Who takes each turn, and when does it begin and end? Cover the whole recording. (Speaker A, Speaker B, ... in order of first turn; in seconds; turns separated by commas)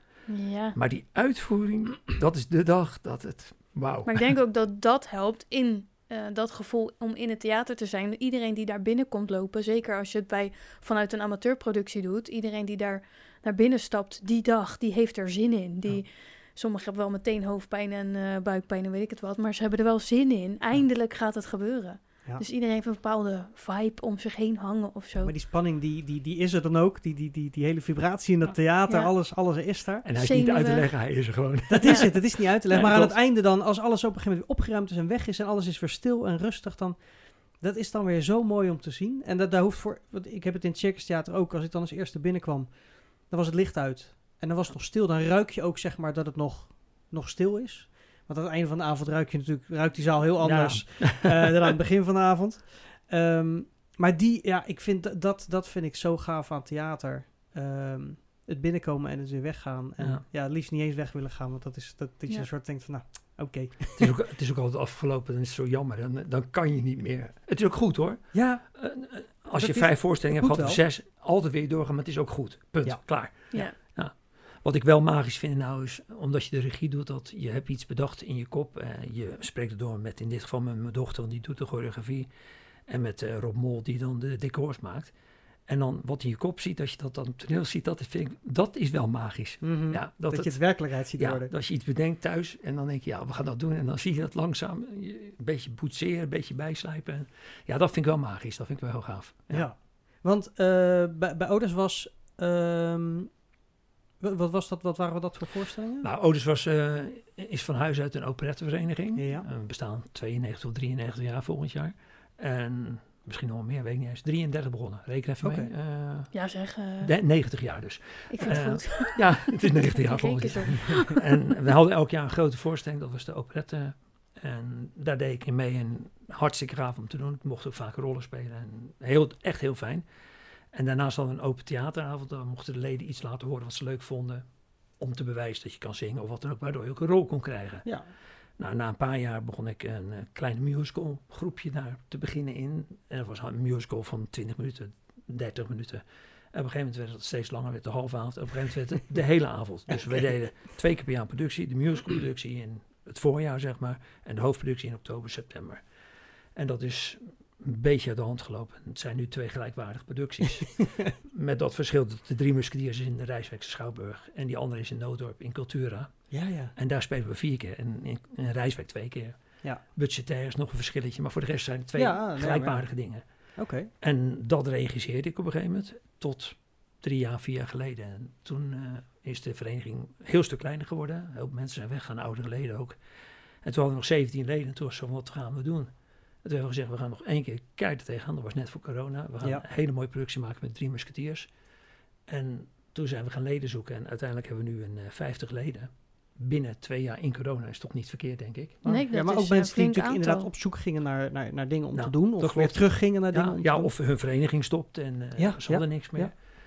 Speaker A: 0.3-0.8, Speaker B: 0.7-4.3, Speaker A: 4.0-25.3, Speaker C: 25.2-30.1, Speaker B: 30.0-33.2, Speaker A: 30.2-30.9, Speaker C: 31.7-64.1, Speaker B: 50.4-51.6, Speaker B: 60.0-60.2, Speaker B: 64.0-82.3, Speaker C: 68.3-68.6, Speaker C: 69.5-70.8, Speaker B: 82.9-85.1, Speaker B: 85.7-99.7, Speaker C: 89.6-91.5, Speaker C: 99.5-103.4, Speaker C: 104.2-106.1, Speaker B: 106.0-116.3, Speaker C: 109.1-109.5, Speaker C: 115.4-115.7, Speaker A: 116.3-117.1, Speaker B: 117.0-130.0, Speaker A: 118.3-121.3, Speaker B: 130.7-134.4, Speaker B: 135.0-137.9, Speaker C: 137.8-138.1, Speaker B: 138.6-155.8, Speaker B: 156.5-173.2, Speaker C: 160.8-161.1, Speaker C: 166.3-166.7, Speaker C: 171.9-172.8, Speaker C: 173.6-173.9, Speaker B: 174.0-183.0, Speaker B: 183.6-185.9, Speaker B: 186.4-191.5, Speaker B: 192.3-198.8, Speaker A: 198.8-200.5, Speaker C: 198.8-203.9, Speaker B: 201.9-206.4, Speaker C: 205.4-206.3